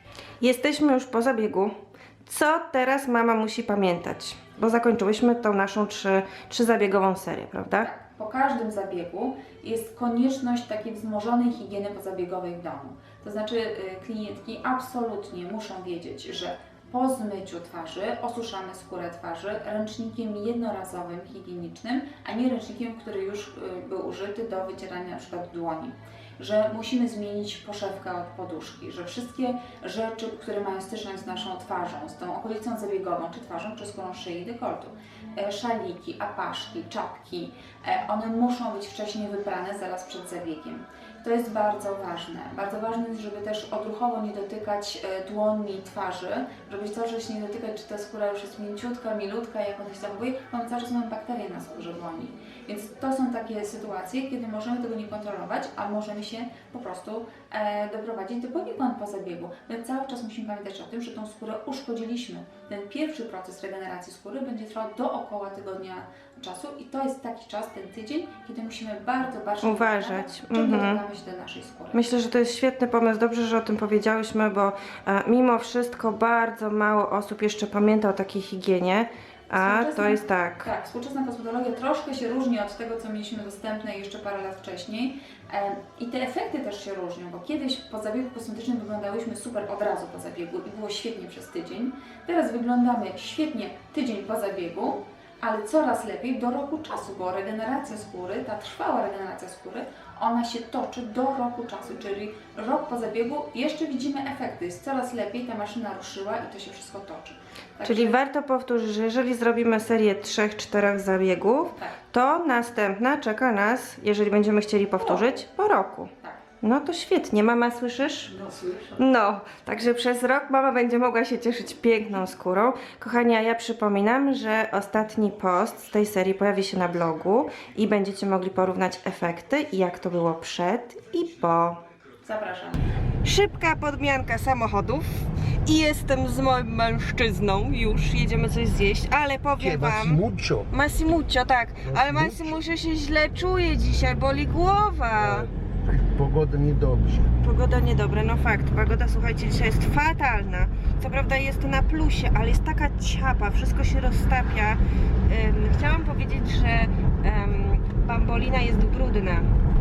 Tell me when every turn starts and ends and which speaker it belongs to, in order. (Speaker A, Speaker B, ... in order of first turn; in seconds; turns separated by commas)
Speaker A: 0.4-7.9, Speaker B: 7.8-72.0, Speaker A: 69.6-71.0, Speaker A: 71.9-80.7, Speaker B: 79.5-108.2, Speaker A: 107.8-116.1, Speaker B: 111.8-112.0, Speaker B: 115.0-115.3, Speaker A: 116.6-118.3, Speaker B: 118.4-118.9, Speaker A: 119.0-131.8, Speaker B: 132.2-132.8, Speaker A: 133.2-140.2, Speaker C: 139.6-140.7, Speaker A: 140.7-145.5, Speaker C: 141.8-142.6, Speaker C: 145.2-147.3, Speaker A: 147.4-159.5